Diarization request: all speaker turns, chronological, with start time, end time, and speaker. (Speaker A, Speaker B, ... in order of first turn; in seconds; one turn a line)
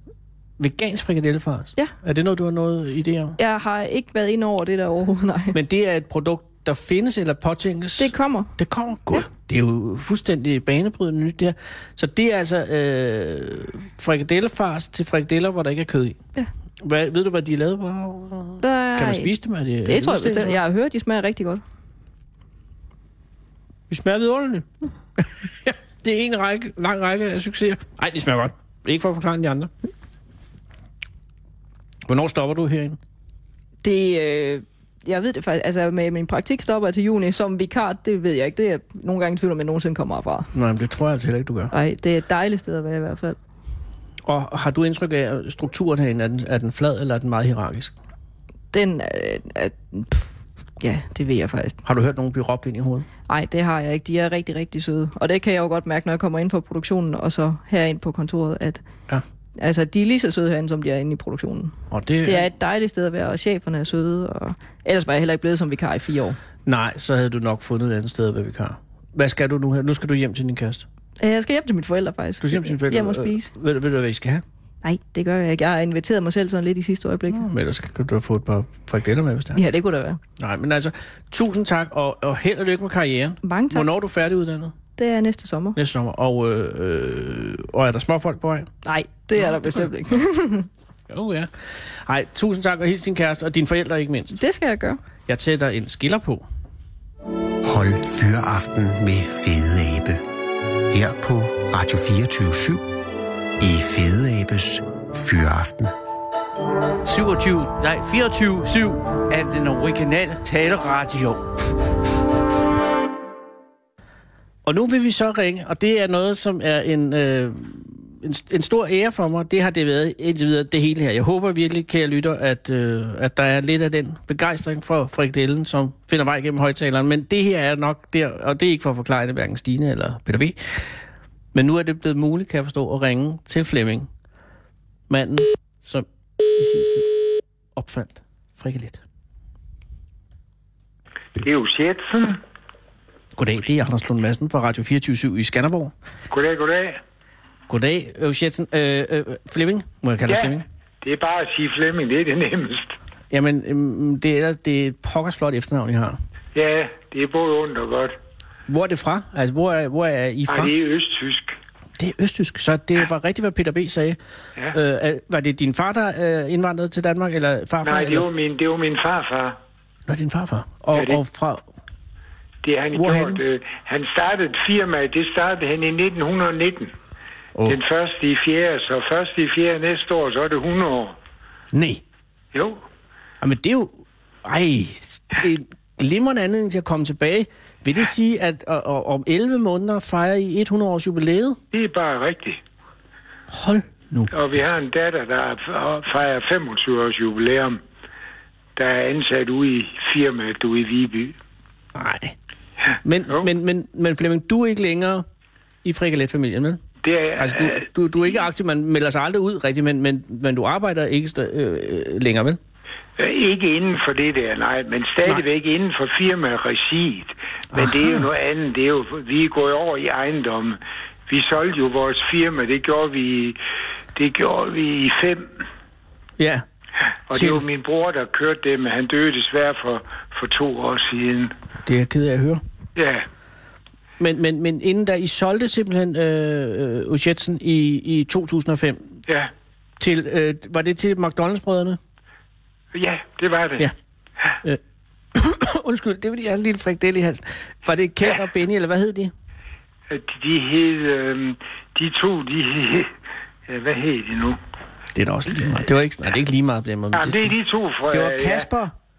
Speaker A: 0.6-3.4
Speaker B: 3.4-5.6
Speaker A: 5.5-16.2
Speaker B: 8.0-8.5
Speaker A: 16.8-20.6
Speaker B: 18.6-19.3
Speaker B: 19.8-21.6
Speaker A: 23.9-29.7
Speaker A: 32.1-33.0
Speaker B: 33.8-40.5
Speaker A: 40.5-41.7
Speaker B: 41.7-43.4
Speaker A: 44.2-47.9
Speaker B: 48.7-50.3
Speaker B: 50.8-51.8
Speaker A: 51.8-53.1
Speaker B: 53.3-58.8
Speaker B: 59.6-61.7
Speaker A: 61.9-62.5
Speaker B: 62.2-66.4
Speaker A: 66.7-70.8
Speaker B: 71.2-73.5
Speaker A: 72.4-74.4
Speaker B: 74.8-77.5
Speaker A: 77.3-79.6
Speaker B: 79.5-80.2
Speaker A: 80.4-84.7
Speaker B: 83.4-83.9
Speaker B: 85.0-85.8
Speaker A: 85.8-88.7
Speaker B: 88.8-90.7
Speaker A: 91.1-94.4
Speaker B: 94.3-95.0
Speaker A: 95.3-96.4
Speaker C: 97.6-100.2
Speaker C: 100.9-102.8
Speaker C: 103.6-105.9
Speaker D: 107.0-111.5
Speaker A: 114.7-130.9
Speaker A: 131.5-134.1
Speaker A: 135.1-137.1
Speaker A: 137.8-139.0
Speaker E: 141.4-142.4
Speaker A: 143.3-145.9
Speaker E: 146.3-147.0
Speaker A: 147.7-150.6
Speaker E: 150.3-152.9
Speaker A: 153.3-156.2
Speaker E: 156.5-158.1
Speaker A: 158.7-160.7
Speaker E: 160.5-161.6
Speaker A: 162.0-164.2
Speaker A: 164.7-168.3
Speaker E: 167.8-169.6
Speaker A: 170.1-171.6
Speaker E: 170.9-171.2
Speaker E: 172.6-176.9
Speaker A: 172.9-173.4
Speaker E: 177.7-181.2
Speaker A: 181.7-182.0
Speaker E: 182.5-182.8
Speaker A: 183.4-191.6
Speaker E: 191.7-192.6
Speaker A: 193.5-194.3
Speaker E: 194.3-197.8
Speaker E: 198.8-201.3
Speaker A: 201.9-202.3
Speaker A: 203.0-205.2
Speaker A: 205.8-206.8
Speaker E: 207.0-207.8
Speaker A: 207.3-212.6
Speaker E: 213.2-223.6
Speaker A: 217.7-218.3
Speaker E: 224.1-225.6
Speaker A: 226.4-226.6
Speaker E: 227.3-231.5
Speaker A: 227.3-227.6
Speaker A: 231.8-232.6
Speaker E: 232.9-233.3
Speaker A: 234.2-239.1
Speaker A: 240.0-242.0
Speaker E: 242.9-243.9
Speaker A: 245.3-249.3
Speaker E: 250.1-253.1
Speaker E: 253.7-254.6
Speaker A: 255.1-257.5
Speaker E: 257.1-258.7
Speaker A: 258.1-258.9